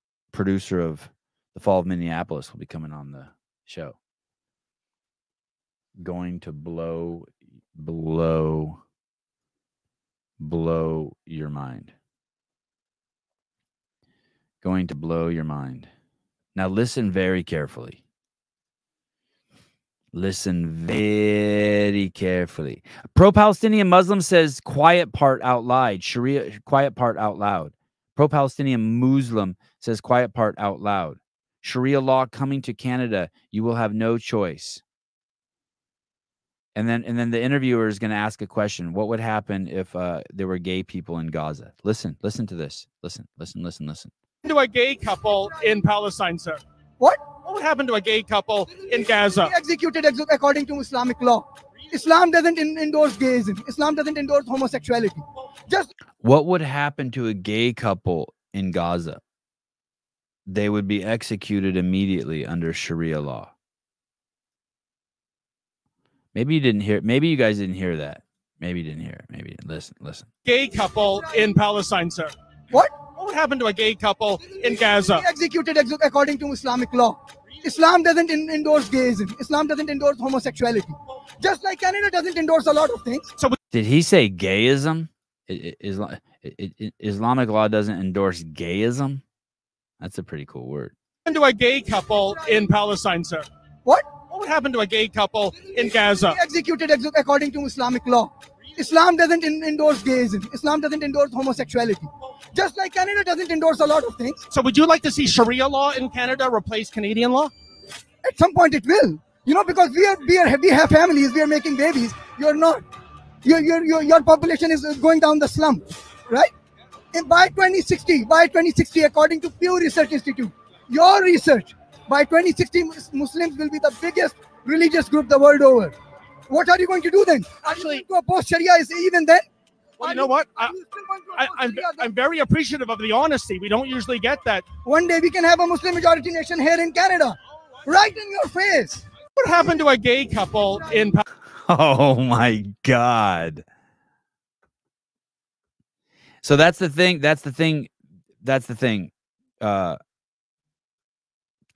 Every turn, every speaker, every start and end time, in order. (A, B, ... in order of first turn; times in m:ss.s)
0:00.3-0:04.0 A
0:06.0-0:08.8 A
0:10.4-0:12.0 A
0:14.6-0:15.9 A
0:16.6-0:18.0 A
0:20.1-0:34.8 A
0:36.8-0:44.1 A
0:44.4-0:46.6 B
0:47.0-0:47.3 C
0:47.3-0:49.5 B
0:48.7-0:55.9 C
0:56.2-0:59.2 A
1:00.5-1:03.5 A
1:06.3-1:10.3 A
1:10.4-1:12.3 B
1:12.7-1:13.0 C
1:13.0-1:15.2 B
1:14.4-1:23.3 C
1:23.7-1:29.2 A
1:30.0-1:30.9 A
1:31.3-1:33.5 B
1:33.9-1:34.2 C
1:34.2-1:36.4 B
1:35.6-1:44.4 C
1:44.5-1:47.5 B
1:48.2-1:52.8 C
1:53.4-1:56.5 C
1:57.1-2:06.0 C
2:06.5-2:09.5 C
2:07.8-2:08.0 B
2:10.0-2:12.1 C
2:10.0-2:10.8 B
2:11.4-2:14.7 B
2:14.8-2:19.1 C
2:19.4-2:21.2 B
2:21.5-2:23.6 A
2:26.4-2:30.0 A